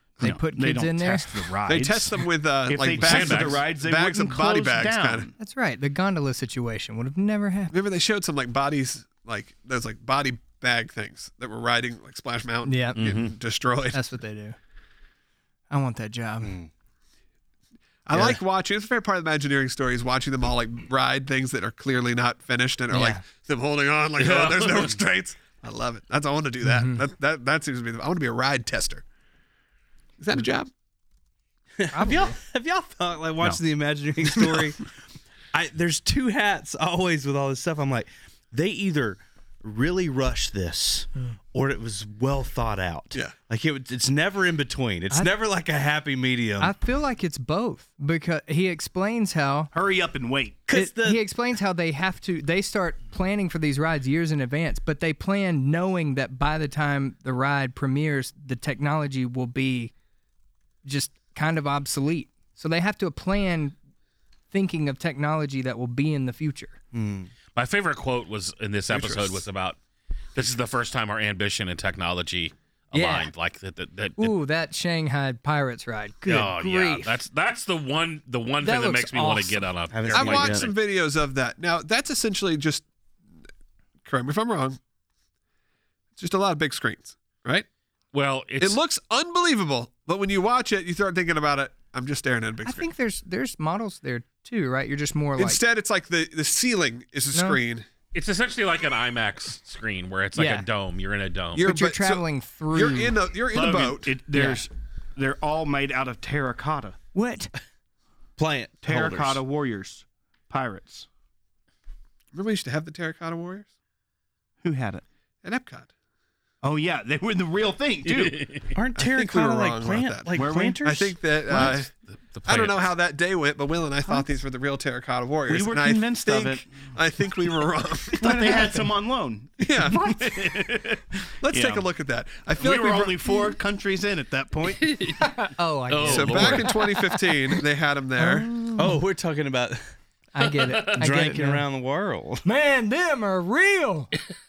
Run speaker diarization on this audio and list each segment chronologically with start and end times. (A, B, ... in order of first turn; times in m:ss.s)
0:00.2-0:01.5 A
0:00.2-0:05.3 B
0:01.7-0:05.3 C
0:02.9-0:03.6 D
0:05.4-0:07.7 A
0:07.7-0:14.0 C
0:12.6-0:13.0 A
0:12.9-0:13.4 D
0:13.9-0:14.6 A
0:15.7-0:16.6 A
0:18.0-0:29.0 C
0:18.1-0:18.4 E
0:22.9-0:23.2 A
0:24.2-0:25.0 D
0:26.6-0:27.0 A
0:30.2-0:30.7 C
0:31.8-0:34.8 E
0:31.9-0:32.4 A
0:34.4-0:34.6 C
0:35.5-0:46.7 E
0:46.6-0:49.7 A
0:49.7-0:50.7 B
0:50.7-0:51.2 E
0:50.7-0:59.9 A
1:00.8-1:03.7 A
1:04.5-1:06.8 A
1:06.9-1:07.3 E
1:07.5-1:09.8 D
1:08.9-1:09.4 C
1:10.3-1:14.3 D
1:12.9-1:13.3 A
1:14.2-1:17.2 A
1:16.2-1:20.8 D
1:18.6-1:19.6 A
1:19.9-1:20.7 E
1:20.1-1:22.8 C
1:24.0-1:24.8 C
1:26.2-1:27.7 C
1:28.1-1:28.8 D
1:28.6-1:32.9 C
1:32.6-1:35.6 A
1:35.4-1:37.8 C
1:37.3-1:37.6 A
1:38.1-1:41.6 D
1:40.3-1:40.7 A
1:41.5-1:44.1 C
1:41.6-1:43.2 A
1:43.5-1:47.0 B
1:44.3-1:44.6 A
1:47.1-1:47.5 A
1:48.4-1:49.4 E
1:48.8-1:51.1 B
1:52.3-1:53.7 C
1:54.6-1:55.0 B
1:55.4-1:55.9 C
1:56.6-1:58.6 B
1:58.2-1:58.7 D
1:58.7-2:01.2 E
1:59.0-2:01.9 C
2:00.3-2:00.8 B
2:01.6-2:02.9 D
2:02.4-2:08.7 C
2:05.5-2:06.7 B
2:08.2-2:11.9 B
2:08.2-2:08.9 A
2:09.6-2:10.6 C
2:11.4-2:13.3 C
2:12.6-2:14.9 B
2:14.8-2:16.9 D
2:15.2-2:17.3 A
2:16.1-2:18.5 C
2:18.2-2:19.0 A
2:18.7-2:19.8 E
2:20.3-2:21.6 A
2:20.9-2:22.4 E
2:22.4-2:24.1 A